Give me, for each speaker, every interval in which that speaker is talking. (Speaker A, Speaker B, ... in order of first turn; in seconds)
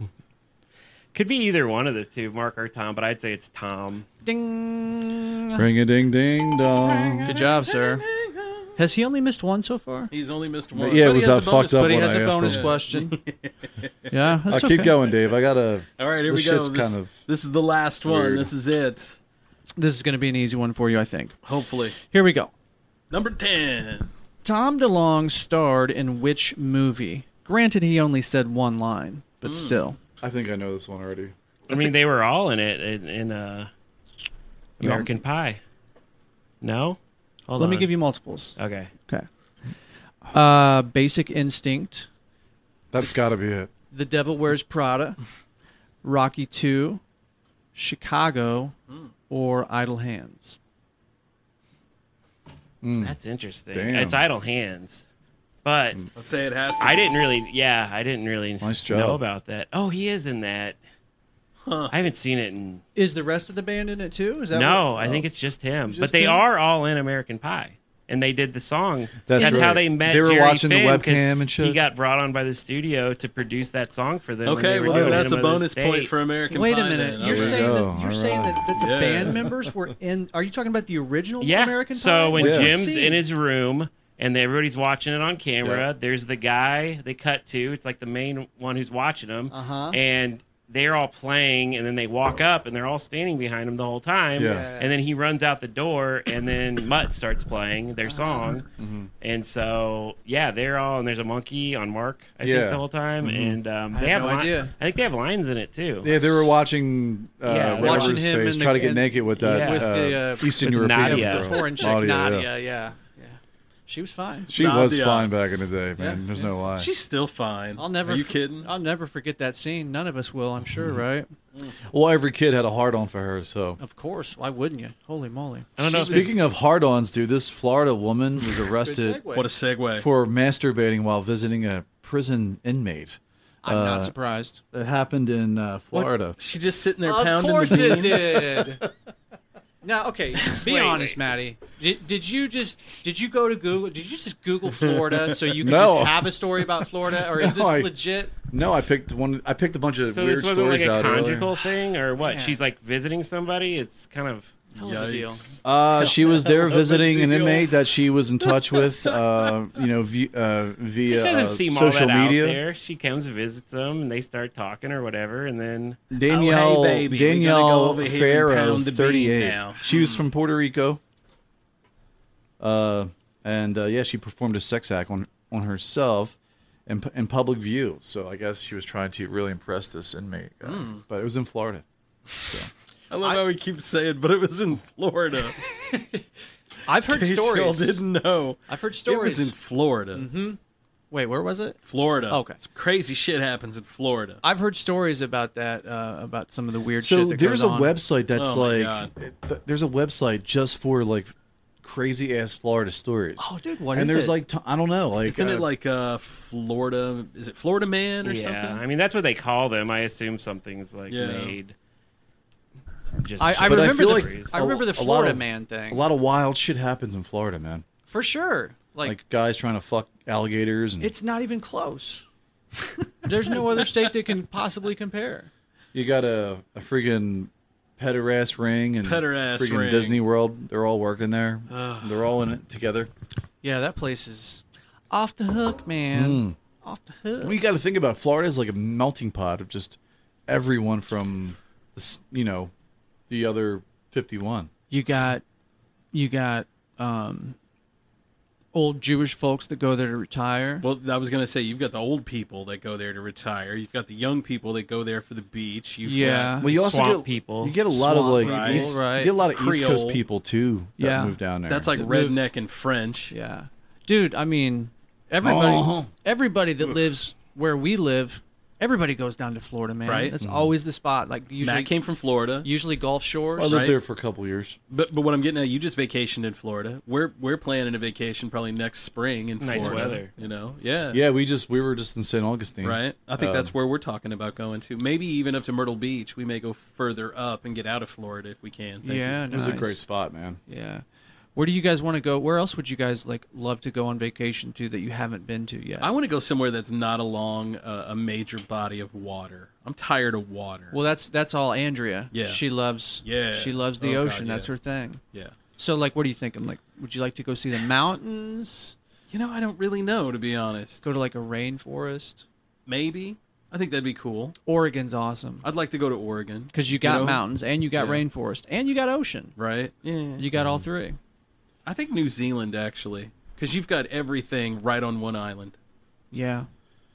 Speaker A: 1.1-4.1, 31.7-33.7, 34.8-35.6, 36.6-38.0, 38.5-38.9, 53.0-55.0, 55.6-56.0, 56.8-60.8, 61.9-62.8, 64.5-76.1, 81.4-98.7, 99.2-106.1, 107.4-108.2, 109.4-109.9, 110.4-111.9, 125.8-126.4, 140.6-141.2, 150.1-154.6, 161.1-166.0, 208.2-211.7, 213.2-214.6, 256.6-257.8, 279.6-280.3
Speaker B: 4.2-5.6, 7.2-8.0, 8.8-10.1, 11.7-13.2, 14.1-14.9, 19.8-21.4, 22.0-22.5, 24.4-30.0, 34.8-35.1, 37.6-38.5, 40.3-42.1, 43.9-45.2, 46.0-47.0, 47.7-48.7, 49.3-50.6, 63.0-65.2, 69.4-69.7, 76.5-83.2, 89.5-90.0, 94.4-94.9, 98.1-98.5, 103.9-104.7, 107.8-114.5, 116.0-116.2, 117.8-121.3, 123.8-125.7, 128.8-129.5, 133.6-134.6, 137.0-138.8, 139.8-148.3, 152.2-152.6, 154.8-155.5, 185.9-186.2, 186.8-188.0, 188.7-189.5, 190.1-190.6, 191.1-192.6, 194.4-197.9, 203.4-204.4, 213.4-216.1, 218.1-219.2, 221.0-222.2, 223.2-225.5, 233.6-237.6, 244.9-245.4, 246.1-247.6, 248.7-250.8, 256.0-256.6, 257.9-259.3, 261.0-261.4, 261.9-262.4, 263.3-271.9, 272.6-273.8, 289.0-290.0, 290.7-291.0, 291.5-296.1, 300.9-305.2, 305.8-308.9, 311.0-312.4, 314.6-315.6, 316.7-319.5, 320.4-321.2, 326.3-326.7
Speaker C: 5.6-7.3, 10.7-12.7, 14.5-17.2, 18.0-18.5, 30.2-31.3, 42.9-43.7, 52.8-53.1, 53.7-54.2, 58.6-59.2, 65.9-66.3, 69.2-71.8, 74.9-75.3, 77.2-78.6, 82.3-82.7, 94.3-94.7, 98.8-99.1, 102.4-103.6, 106.0-112.5, 114.5-116.9, 121.9-123.8, 125.9-129.2, 129.9-134.1, 134.7-136.4, 145.6-146.3, 147.3-151.5, 155.6-162.6, 166.1-171.0, 172.6-181.8, 182.4-182.7, 197.0-205.7, 213.6-217.8, 219.0-221.1, 225.9-233.1, 236.1-236.6, 237.4-242.7, 243.3-244.7, 256.6-262.0, 265.4-266.1, 270.4-270.7, 273.6-274.8, 281.1-283.7, 289.5-290.6, 320.5-320.8
Speaker D: 6.8-8.6, 10.1-14.2, 16.0-19.2, 21.4-22.0, 23.1-24.1, 29.4-29.8, 56.1-57.2, 61.6-61.9, 74.4-77.7, 78.7-79.4, 114.5-115.3, 116.7-118.7, 125.9-126.3, 129.3-130.1, 136.4-138.4, 154.8-157.7, 158.5-159.5, 166.3-169.8, 180.6-181.0, 183.1-185.6, 187.1-190.4, 191.8-194.4, 198.3-199.1, 205.2-208.8, 211.1-211.6, 229.0-230.2, 231.7-232.2, 250.8-256.6, 258.4-260.2, 261.7-263.3, 270.0-270.4, 271.6-272.7, 273.7-274.0, 274.9-281.2, 282.8-289.4, 296.0-301.0, 302.3-302.6, 303.2-304.7, 309.3-311.1, 312.9-314.5, 315.6-318.2, 319.6-320.5, 321.9-325.7